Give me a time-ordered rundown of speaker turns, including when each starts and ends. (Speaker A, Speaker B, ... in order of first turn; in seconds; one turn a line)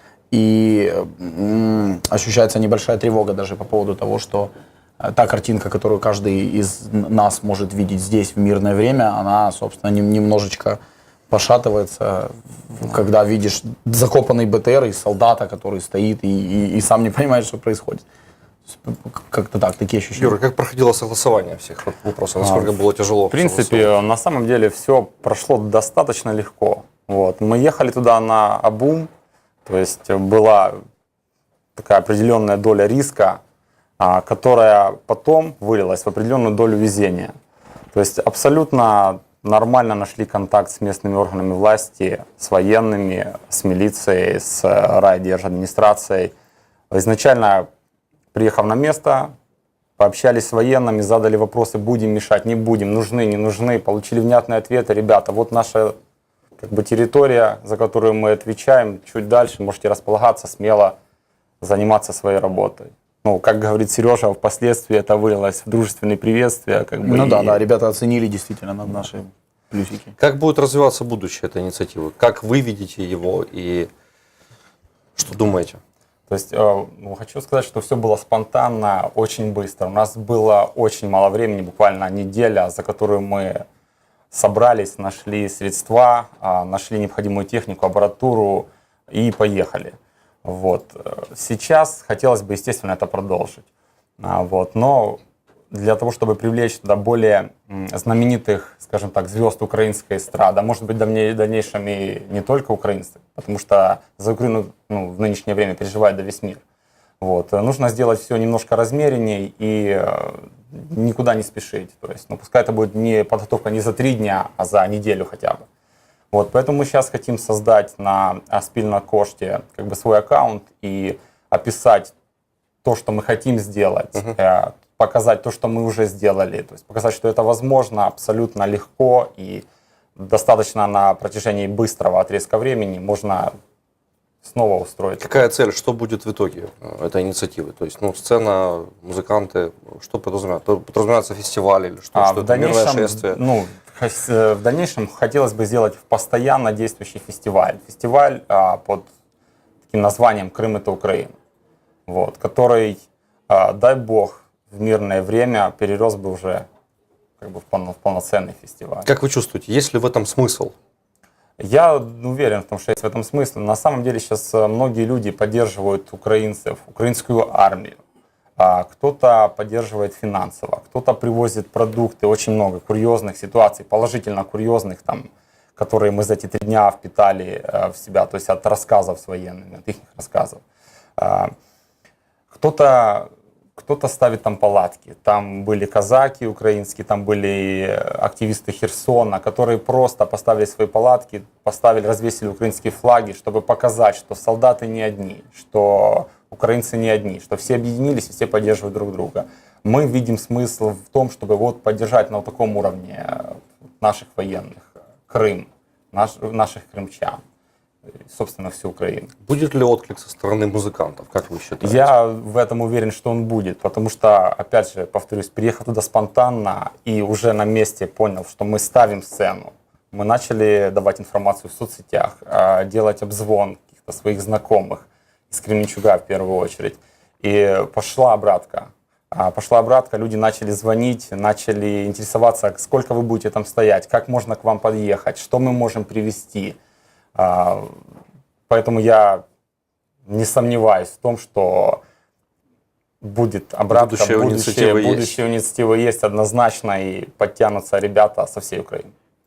Speaker A: 0.3-18.1
Speaker A: 18.7-20.4
Speaker B: 20.2-23.9
Speaker C: 22.4-22.8
Speaker C: 23.3-29.1
Speaker C: 29.6-30.8
Speaker C: 31.8-33.4
Speaker C: 34.0-37.3
Speaker C: 37.9-46.3
Speaker C: 46.9-47.7
Speaker C: 48.3-49.3
Speaker C: 50.0-55.9
Speaker C: 56.6-61.0
Speaker C: 61.6-67.6
Speaker A: 67.0-70.1
Speaker B: 70.2-73.9
Speaker B: 75.2-75.8
Speaker C: 76.3-83.6
Speaker C: 84.3-93.7
Speaker C: 94.2-95.2
Speaker C: 95.7-106.6
Speaker C: 107.2-115.6
Speaker C: 116.3-122.1
Speaker C: 122.8-129.7
Speaker C: 130.2-133.5
Speaker C: 134.4-135.5
Speaker B: 135.2-143.4
Speaker C: 142.2-149.1
Speaker C: 149.9-151.3
Speaker C: 152.1-153.0
Speaker C: 153.5-156.7
Speaker C: 157.4-159.1
Speaker B: 159.1-160.7
Speaker C: 161.6-168.0
Speaker C: 168.6-180.6
Speaker C: 181.2-181.5
Speaker C: 182.5-207.4
Speaker C: 208.3-209.3
Speaker B: 209.4-212.1
Speaker C: 211.8-236.8
Speaker C: 237.4-237.9
Speaker C: 238.7-239.4
Speaker C: 240.3-242.0
Speaker C: 243.2-249.1
Speaker B: 243.9-245.4